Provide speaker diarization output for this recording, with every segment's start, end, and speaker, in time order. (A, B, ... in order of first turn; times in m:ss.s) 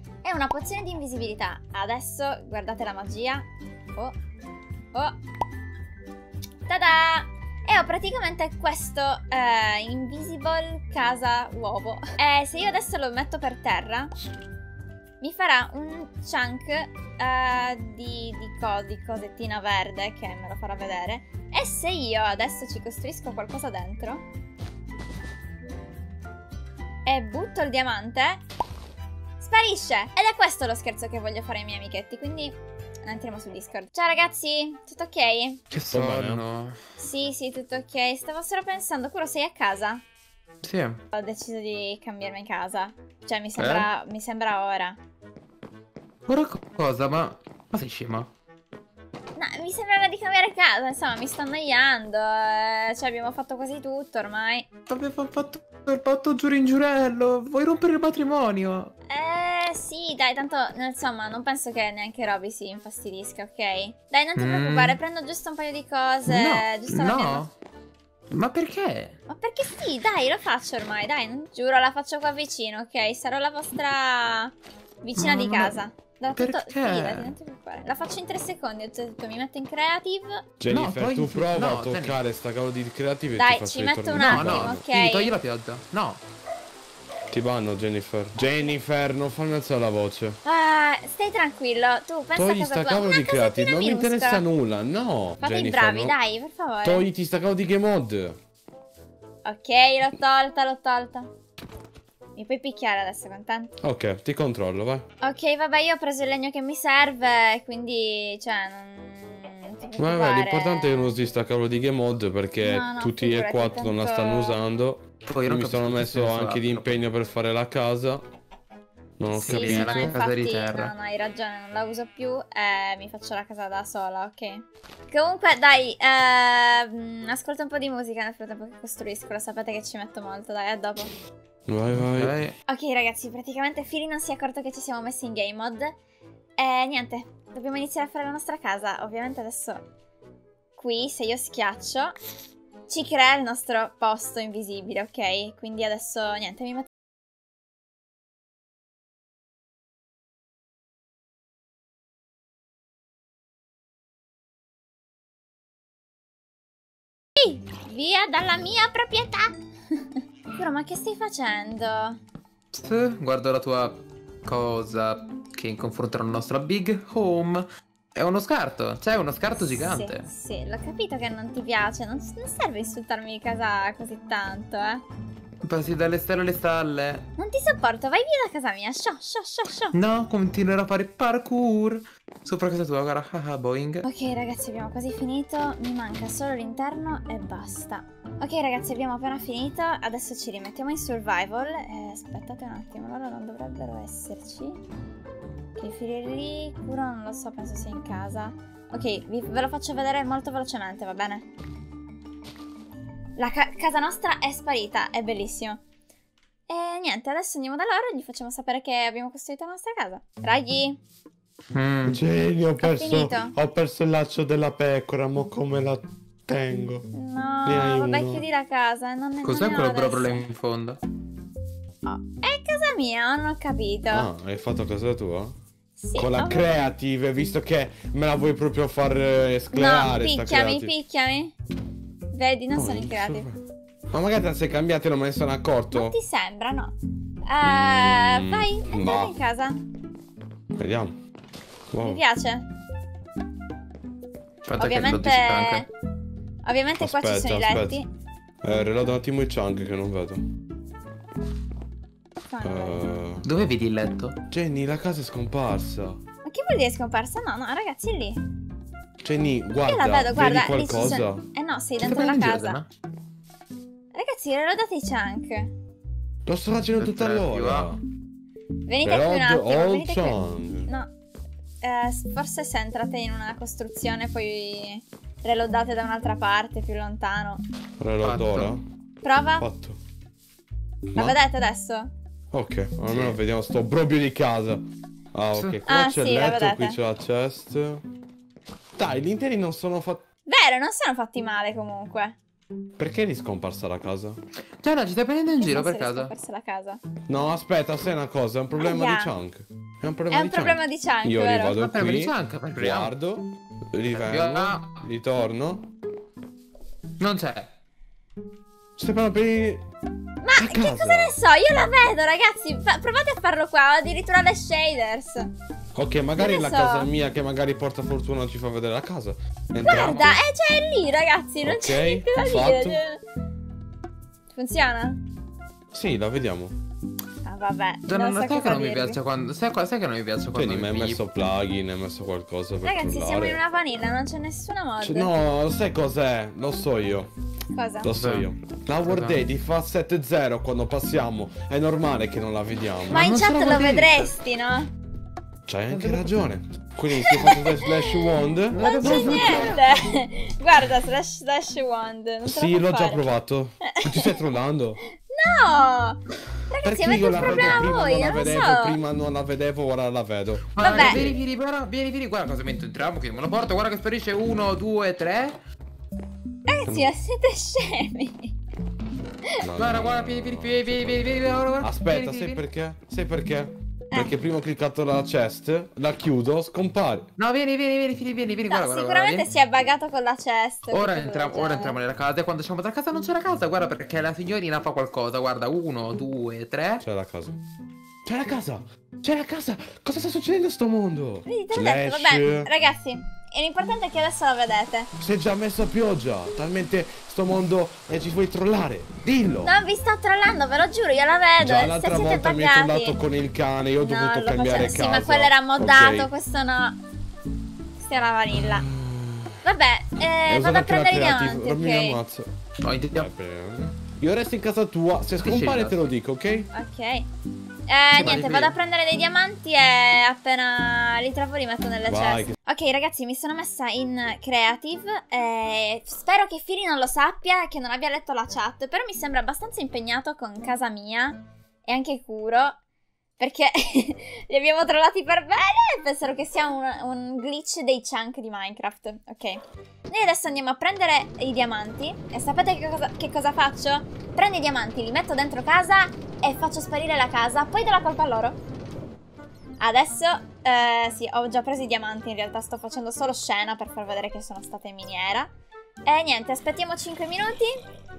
0:00.2-0:04.2 A
0:06.7-0:14.1 A
0:15.2-0:24.2 A
0:27.0-0:28.4 A
0:29.4-0:32.6 A
0:33.0-0:35.6 A
0:35.7-0:36.8 B
0:35.9-0:36.4 C
0:37.0-0:40.0 A
0:40.6-0:41.0 B
0:41.1-0:45.0 A
0:43.6-0:43.9 B
0:46.3-0:48.3 B
0:49.4-0:54.7 A
0:54.9-0:58.9 B
0:59.1-1:07.5 A
1:04.4-1:05.0 B
1:06.3-1:07.5 B
1:08.3-1:09.2 B
1:09.3-1:20.4 A
1:15.2-1:15.8 B
1:16.3-1:17.3 B
1:20.6-1:24.8 C
1:20.7-1:22.2 B
1:23.3-1:25.3 A
1:24.2-1:26.2 B
1:27.3-1:30.4 C
1:28.4-1:28.7 A
1:30.4-1:34.4 A
1:32.3-1:36.2 C
1:35.4-1:37.1 A
1:36.8-1:38.4 C
1:39.4-1:41.3 A
1:42.4-1:43.7 A
1:43.8-1:45.0 C
1:45.2-1:51.2 A
1:50.0-1:58.2 C
1:52.6-1:54.6 A
1:55.3-1:56.8 B
1:59.2-2:00.1 C
1:59.3-2:00.9 B
1:59.4-2:11.1 A
2:11.7-2:12.4 C
2:12.0-2:12.6 B
2:12.7-2:16.0 A
2:16.6-2:19.8 A
2:20.8-2:22.2 A
2:22.9-2:26.9 A
2:37.4-2:42.2 A
2:42.7-2:50.3 B
2:49.6-2:55.0 A
2:55.6-2:57.2 B
2:57.4-3:00.0 A
2:59.9-3:04.1 B
3:04.0-3:14.8 A
3:15.8-3:21.4 A
3:23.4-3:25.8 A
3:26.7-3:31.0 A
3:31.7-3:32.2 B
3:32.0-3:37.1 C
3:32.8-3:33.6 A
3:37.1-3:40.4 A
3:37.6-3:38.4 C
3:39.4-3:41.0 B
3:42.0-3:44.3 A
3:44.1-3:45.6 C
3:46.0-3:46.7 A
3:46.2-3:50.9 C
3:49.7-3:51.6 A
3:52.3-3:53.5 A
3:52.7-3:53.6 C
3:54.1-3:56.2 C
3:55.9-3:57.0 A
3:57.5-3:59.8 A
3:57.6-3:59.4 C
4:00.8-4:01.2 C
4:01.9-4:02.2 C
4:02.0-4:02.7 A
4:04.7-4:05.8 B
4:04.8-4:05.9 A
4:06.6-4:08.1 A
4:07.0-4:08.0 C
4:08.6-4:10.4 C
4:12.5-4:13.0 A
4:12.6-4:13.5 C
4:13.4-4:14.4 B
4:14.5-4:16.2 C
4:16.4-4:18.4 A
4:19.2-4:21.5 C
4:19.8-4:22.8 A
4:22.0-4:22.9 B
4:24.1-4:25.7 A
4:26.4-4:28.0 C
4:27.0-4:28.0 B
4:28.8-4:31.1 A
4:29.0-4:30.9 C
4:31.8-4:37.6 A
4:38.0-4:38.8 C
4:38.2-4:38.8 B
4:39.2-4:39.7 A
4:39.6-4:40.0 C
4:41.1-4:42.1 A
4:42.5-4:44.8 C
4:43.1-4:43.4 B
4:45.3-4:48.0 C
4:45.5-4:45.8 B
4:45.8-4:47.0 A
4:49.0-4:50.2 C
4:50.5-4:52.4 A
4:53.0-4:54.4 C
4:54.8-4:56.3 B
4:55.6-4:57.0 A
4:57.3-5:05.8 C
4:58.8-4:59.3 A
5:00.3-5:01.9 A
5:01.7-5:03.1 B
5:04.1-5:05.0 B
5:07.2-5:07.7 B
5:09.0-5:09.8 C
5:10.4-5:15.5 A
5:10.6-5:11.4 C
5:15.9-5:20.4 C
5:16.4-5:17.1 A
5:19.8-5:23.2 A
5:19.9-5:20.3 B
5:21.6-5:23.0 C
5:24.5-5:25.2 A
5:25.9-5:26.8 C
5:27.4-5:29.2 A
5:28.1-5:31.2 B
5:30.5-5:33.6 C
5:32.8-5:35.3 A
5:35.0-5:37.3 C
5:37.7-5:38.1 A
5:38.0-5:43.4 C
5:38.1-5:38.5 B
5:39.0-5:39.4 B
5:43.1-5:44.9 A
5:43.1-5:44.3 B
5:45.7-5:49.8 C
5:45.9-5:46.5 B
5:47.1-5:48.2 A
5:48.7-5:49.8 B
5:48.8-5:53.3 A
5:52.4-5:55.0 C
5:53.9-5:54.4 A
5:55.3-5:59.0 A
5:56.8-6:01.4 C
5:57.3-5:57.9 B
6:00.7-6:05.6 B
6:00.8-6:01.2 A
6:06.7-6:08.5 A
6:06.8-6:07.1 C
6:09.6-6:17.3 C
6:09.8-6:12.6 B
6:17.4-6:19.5 B
6:18.7-6:22.0 A
6:20.9-6:27.0 B
6:27.0-6:27.6 C
6:28.2-6:32.7 C
6:31.4-6:35.1 A
6:35.2-6:39.7 C
6:39.6-6:43.2 A
6:41.6-6:46.3 C
6:44.0-6:47.0 A
6:48.0-6:48.9 A
6:48.5-6:49.6 C
6:49.6-6:52.2 A
6:50.4-6:52.5 C
6:52.8-6:53.3 B
6:53.1-6:56.7 C
6:55.4-6:56.0 B
6:56.7-6:57.3 A
6:57.9-7:12.8 A
6:58.1-6:58.8 B
7:02.1-7:02.5 C
7:13.4-7:28.6 A
7:29.8-7:35.5 A
7:36.1-7:37.8 A